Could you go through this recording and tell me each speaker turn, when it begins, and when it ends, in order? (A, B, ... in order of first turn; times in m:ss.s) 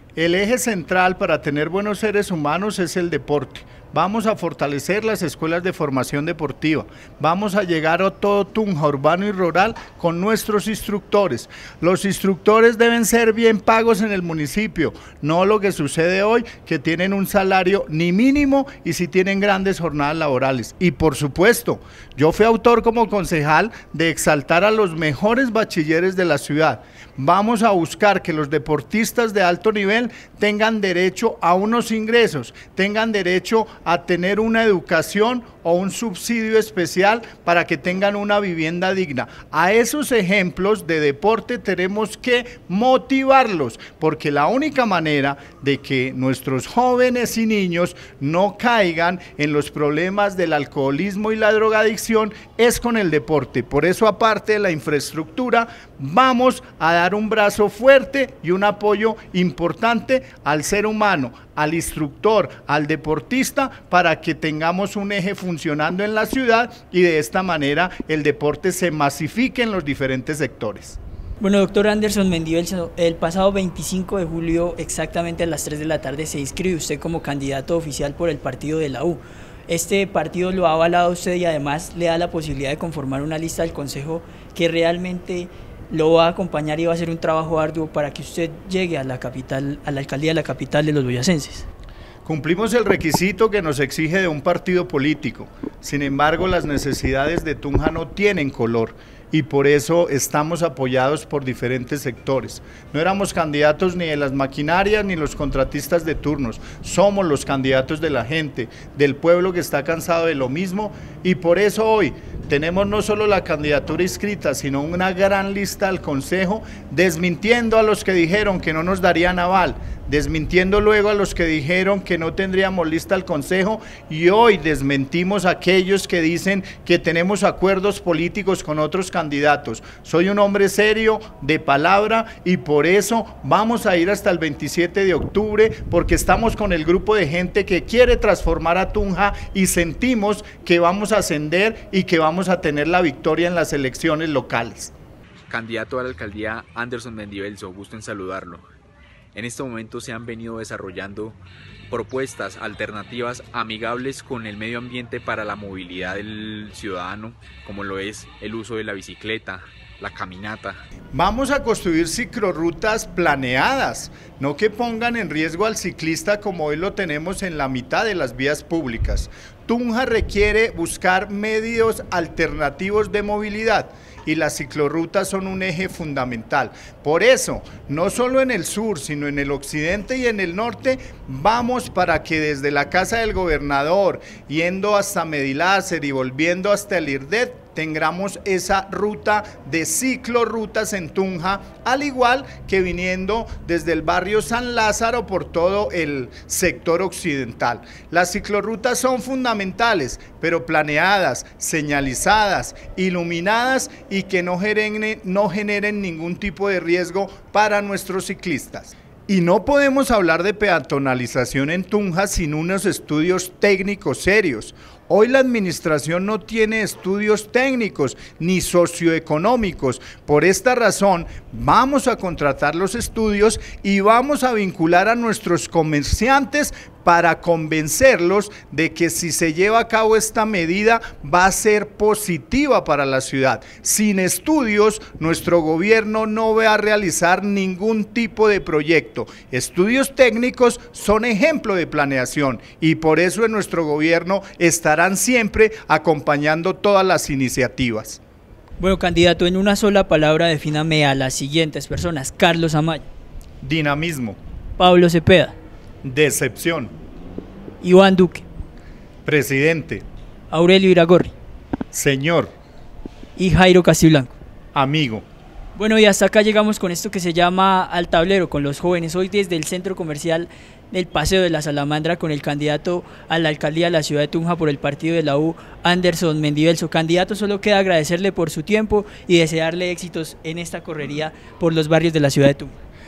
0:00.2-1:11.0 A
1:11.4-1:31.7 B
1:32.2-2:24.9 A
2:25.5-2:28.6 C
2:29.3-2:31.4 C
2:31.9-2:40.8 C
2:41.1-4:08.2 A
4:08.8-4:13.0 B
4:13.6-4:14.4 A
4:14.8-4:15.5 B
4:16.0-4:16.9 A
4:17.8-4:18.4 B
4:19.2-4:20.0 A
4:20.5-4:21.3 B
4:21.9-4:22.5 A
4:23.4-4:24.3 B
4:24.8-4:25.2 A
4:25.8-4:42.7 B